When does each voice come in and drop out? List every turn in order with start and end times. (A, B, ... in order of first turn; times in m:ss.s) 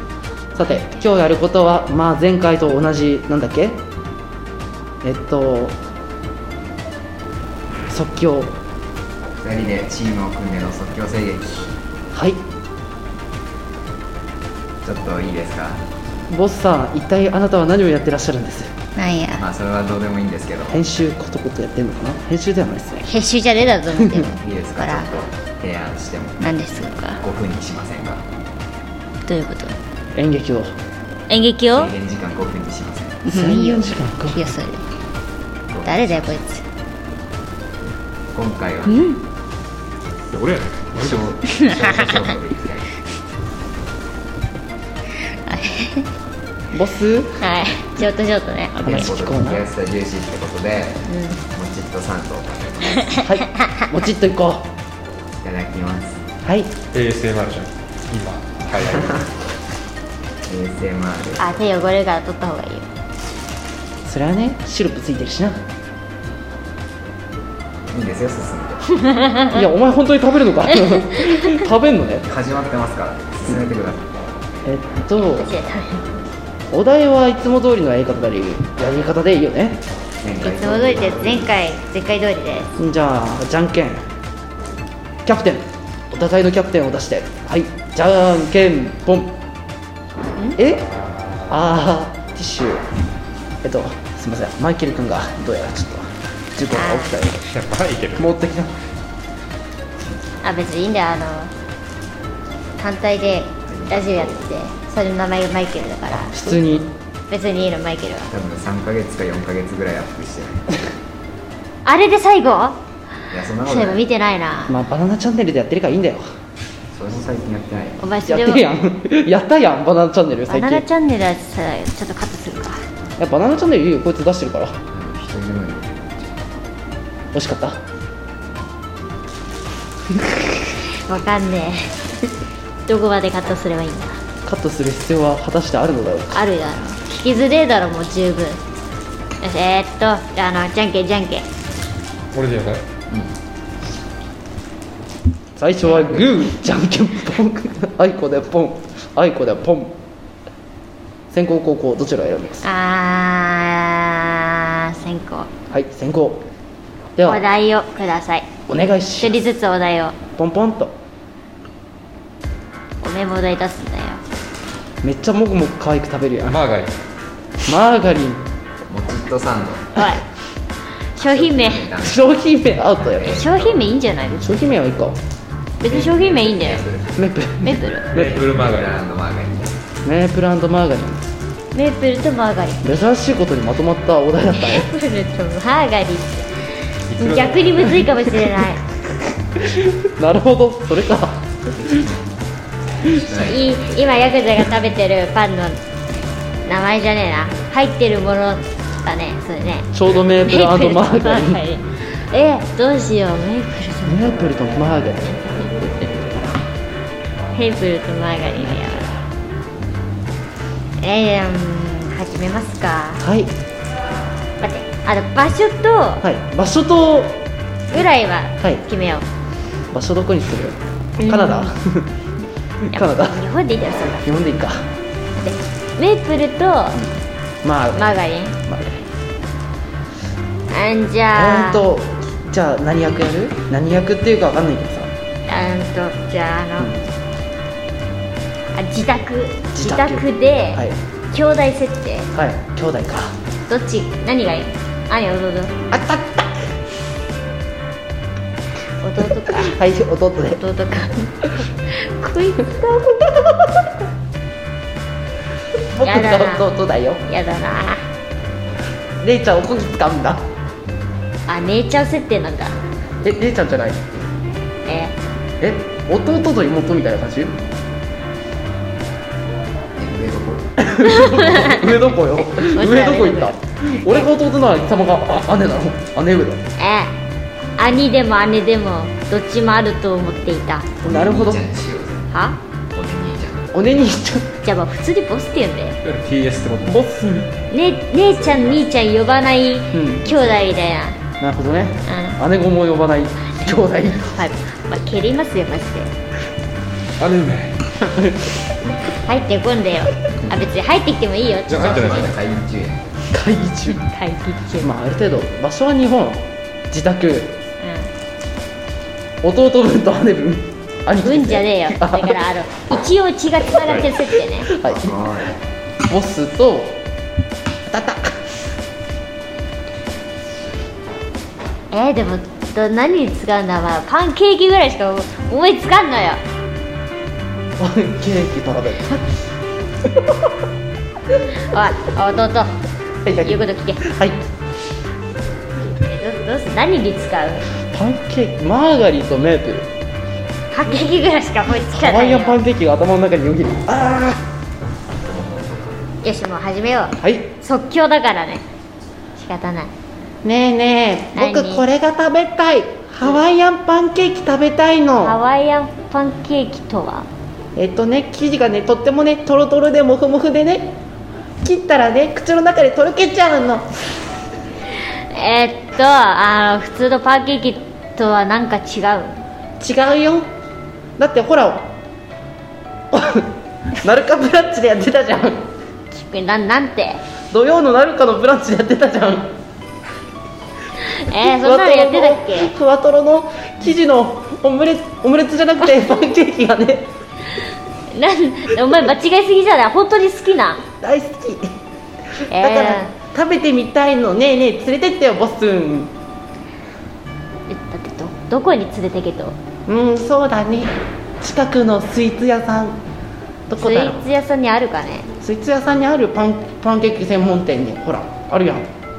0:00.5-0:03.8 A
0:05.0-0:05.8 A
0:07.9-0:08.5 A
0:09.4-0:11.7 B
0:12.1-0:12.4 A
0:14.8-0:15.8 B
0:16.3-0:18.7 A
0:19.0-0:19.4 C
0:19.4-0:20.8 B
0:20.7-0:23.0 A
0:23.0-0:25.1 C
0:24.0-0:24.3 A
0:24.4-0:26.5 B
0:26.4-0:27.2 C
0:27.2-0:28.2 B
0:29.3-0:29.8 C
0:30.1-0:30.7 A
0:31.3-0:31.9 C
0:31.7-0:33.2 B
0:33.2-0:34.8 C
0:33.3-0:34.4 A
0:35.7-0:36.3 B
0:35.8-0:36.6 C
0:38.3-0:39.1 B
0:38.9-0:39.2 C
0:40.3-0:41.4 D
0:41.0-0:42.9 B
0:41.5-0:42.2 C
0:45.3-0:46.0 C
0:46.7-0:47.4 A
0:47.4-0:49.0 C
0:48.8-0:49.6 A
0:48.8-0:53.2 B
0:51.1-0:51.4 C
0:53.0-0:53.8 C
0:53.2-0:54.7 A
0:55.4-0:56.2 B
0:56.4-0:56.7 A
0:56.9-0:59.3 D
1:00.4-1:01.5 B
1:01.4-1:02.9 C
1:04.0-1:05.6 A
1:07.9-1:08.9 B
1:09.0-1:09.5 C
1:09.5-1:12.2 A
1:12.2-1:14.1 B
1:14.6-1:15.5 A
1:15.2-1:16.2 C
1:16.7-1:19.8 A
1:20.2-1:21.5 B
1:20.4-1:22.7 C
1:22.8-1:24.0 A
1:25.2-1:29.4 A
1:30.6-1:30.9 A
1:31.5-1:32.8 A
1:33.6-1:37.4 A
1:36.7-1:37.2 C
1:37.4-1:38.3 D
1:38.2-1:38.8 A
1:40.4-1:41.5 C
1:42.8-1:46.6 C
1:43.7-1:44.4 B
1:46.1-1:46.9 A
1:47.3-1:48.3 C
1:48.3-1:50.8 B
1:51.8-1:52.8 C
1:53.3-1:54.0 B
1:53.6-1:54.8 C
1:54.7-1:56.2 A
1:56.9-1:58.0 B
1:58.0-1:58.6 C
1:58.2-2:00.8 A
2:00.5-2:02.8 C
2:03.2-2:04.8 A
2:04.9-2:06.5 B
2:07.3-2:07.8 A
2:10.2-2:10.4 A
2:11.0-2:12.0 C
2:12.9-2:14.2 C
2:14.4-2:16.3 A
2:16.3-2:18.6 C
2:19.4-2:21.4 C
2:22.3-2:22.8 D
2:25.6-2:30.0 A
2:31.3-2:32.6 A
2:32.6-2:35.5 C
2:35.7-2:36.4 A
2:37.2-2:37.4 A
2:37.2-2:38.5 C
2:38.7-2:39.4 A
2:39.2-2:40.2 C
2:40.4-2:41.0 A
2:43.0-2:44.2 C
2:45.0-2:46.6 A
2:46.5-2:47.0 D
2:47.6-2:48.4 A
2:48.9-2:50.1 B
2:49.9-2:50.2 C
2:51.2-2:51.9 C
2:51.2-2:52.3 B
2:52.0-2:53.4 A
2:53.0-2:53.9 B
2:53.2-2:54.5 C
2:54.4-2:55.2 A
2:55.8-2:56.8 C
2:55.8-2:57.2 B
2:57.1-2:57.8 A
2:57.6-2:58.1 C
2:58.1-2:59.0 D
2:58.1-2:59.8 B
3:00.0-3:01.2 A
3:01.7-3:02.8 C
3:02.8-3:04.9 A
3:04.5-3:06.5 C
3:07.1-3:08.1 D
3:07.2-3:08.8 C
3:09.6-3:12.1 A
3:11.8-3:12.3 B
3:13.0-3:14.4 B
3:13.3-3:15.8 C
3:16.6-3:24.5 C
3:19.9-3:21.6 A
3:24.0-3:25.4 A
3:27.5-3:29.1 C
3:31.0-3:33.2 C
3:33.2-3:33.5 A
3:34.6-3:36.2 C
3:36.2-3:37.4 A
3:37.9-3:39.2 C
3:39.9-3:42.1 A
3:41.2-3:41.7 C
3:42.9-3:43.4 A
3:42.9-3:44.3 C
3:44.2-3:44.9 A
3:45.4-3:47.0 C
3:46.9-3:49.0 A
3:48.0-3:48.6 C
3:50.7-3:51.8 C
3:51.3-3:55.1 A
3:55.5-3:56.9 C
3:56.8-3:57.0 A
3:58.7-4:02.3 C
3:59.7-4:01.0 A
4:02.3-4:03.4 A
4:03.7-4:05.8 C
4:05.9-4:06.6 A
4:09.0-4:09.8 C
4:09.2-4:10.6 A
4:10.6-4:13.2 C
4:13.2-4:13.8 A
4:15.9-4:17.2 A
4:16.0-4:16.6 C
4:17.3-4:18.0 C
4:19.2-4:20.4 A
4:21.5-4:22.8 C
4:23.2-4:24.3 A
4:24.8-4:25.1 C
4:25.6-4:27.5 A
4:30.0-4:30.7 B
4:30.8-4:36.6 A
4:31.0-4:33.6 C
4:36.8-4:37.1 C
4:37.8-4:40.9 C
4:41.0-4:42.3 B
4:41.0-4:41.6 A
4:42.3-4:42.6 C
4:42.9-4:43.7 B
4:43.7-4:44.5 A
4:44.6-4:46.0 C
4:46.0-4:47.1 D
4:46.9-4:47.5 A
4:47.7-4:51.2 C
4:49.9-4:50.3 A
4:51.4-4:54.4 A
4:52.0-4:52.4 C
4:53.6-4:56.1 C
4:57.2-4:57.9 D
4:58.0-4:58.5 A
4:59.2-5:02.2 C
5:01.6-5:03.1 B
5:01.7-5:02.3 D
5:03.3-5:04.0 A
5:03.9-5:04.9 C
5:04.8-5:07.6 A
5:07.8-5:08.1 C
5:09.4-5:12.4 A
5:11.2-5:14.7 C
5:13.8-5:14.1 D
5:14.6-5:15.1 A
5:14.8-5:15.6 B
5:16.1-5:17.0 A
5:17.8-5:18.4 A
5:21.9-5:26.4 C
5:27.8-5:29.3 A
5:30.0-5:30.6 A
5:31.6-5:32.7 C
5:33.2-5:34.4 A
5:33.4-5:34.0 C
5:36.0-5:37.6 C
5:37.9-5:39.9 A
5:40.7-5:42.6 C
5:41.9-5:44.4 A
5:45.2-5:46.1 B
5:46.2-5:48.6 C
5:47.2-5:47.5 A
5:49.4-5:49.9 C
5:50.4-5:55.4 A
5:51.3-5:51.8 C
5:55.2-5:57.3 C
5:57.7-6:01.0 A
6:01.6-6:04.0 A
6:05.3-6:09.4 C
6:09.8-6:10.5 A
6:11.2-6:11.9 A
6:13.1-6:15.7 A
6:16.1-6:17.2 C
6:17.5-6:19.5 A
6:21.0-6:22.7 C
6:21.4-6:27.1 A
6:28.1-6:30.8 C
6:31.0-6:31.7 A
6:32.4-6:36.1 A
6:32.5-6:33.1 C
6:37.7-6:39.6 C
6:39.8-6:43.0 A
6:43.7-6:44.2 A
6:43.8-6:45.3 C
6:45.4-6:48.9 A